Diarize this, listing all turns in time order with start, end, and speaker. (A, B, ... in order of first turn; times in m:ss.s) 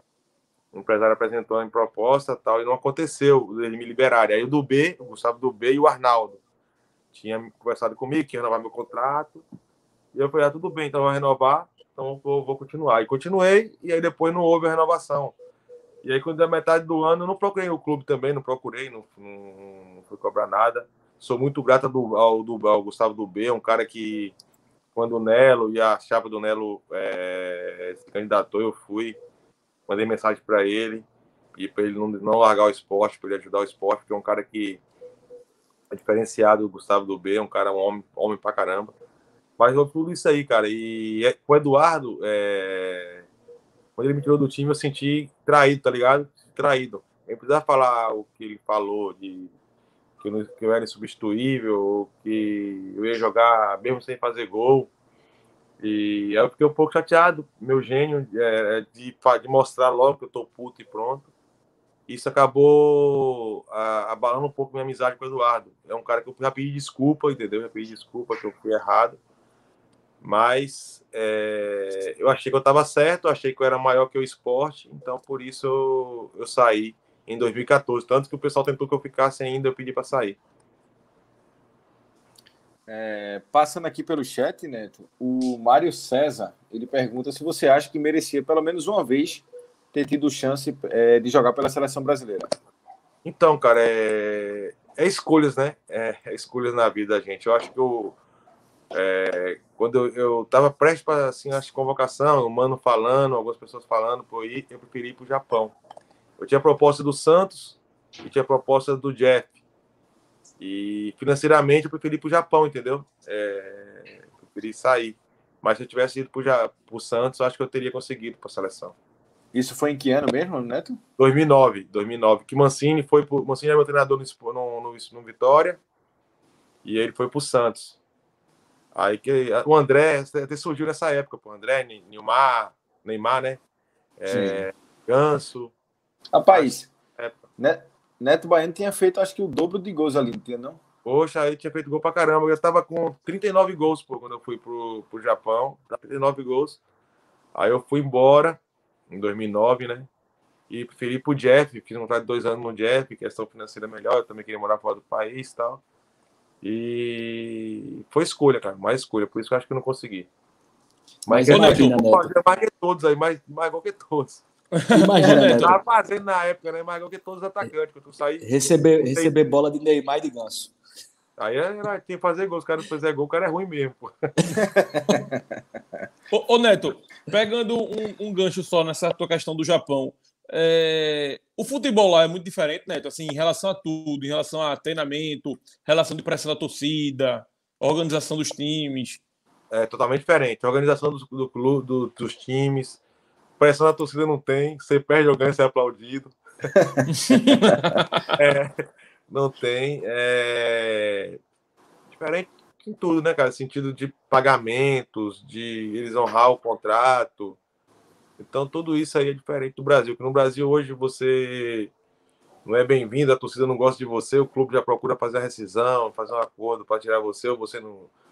0:00.7-0:06.4 A
0:07.1-0:09.4 A
0:10.1-0:15.4 A
0:16.0-0:24.3 A
0:24.9-0:29.2 A
0:29.9-0:31.0 A
0:31.6-0:34.8 A
0:35.9-0:38.9 A
0:39.6-0:43.3 A
0:44.0-0:49.5 A
0:50.2-0:54.9 A
0:55.8-1:01.3 A
1:02.1-1:09.2 A
1:10.2-1:20.4 A
1:22.9-1:32.5 B
1:33.2-1:38.2 A
1:38.9-1:45.7 A
1:46.4-1:49.5 A
1:50.6-1:58.9 A
1:59.5-2:01.0 B
2:01.2-2:05.8 A
2:06.8-2:08.0 A
2:08.9-2:13.6 A
2:14.2-2:15.7 A
2:14.3-2:14.6 B
2:16.3-2:16.9 B
2:16.5-2:17.4 A
2:17.6-2:20.8 B
2:21.0-2:26.8 A
2:27.5-2:30.1 A
2:30.7-2:35.8 A
2:36.6-2:40.3 A
2:41.2-2:42.3 C
2:41.3-2:44.4 A
2:41.5-2:42.0 D
2:44.8-2:45.8 D
2:44.9-2:45.8 C
2:45.6-2:49.3 A
2:48.4-2:50.7 C
2:51.4-2:54.6 A
2:54.6-2:55.4 B
2:56.3-3:09.2 D
3:09.7-3:13.0 A
3:13.6-3:16.3 A
3:16.8-3:17.0 B
3:17.1-3:18.3 D
3:18.3-3:18.7 A
3:19.3-3:21.4 A
3:22.1-3:27.6 A
3:28.4-3:31.9 A
3:32.6-3:38.1 A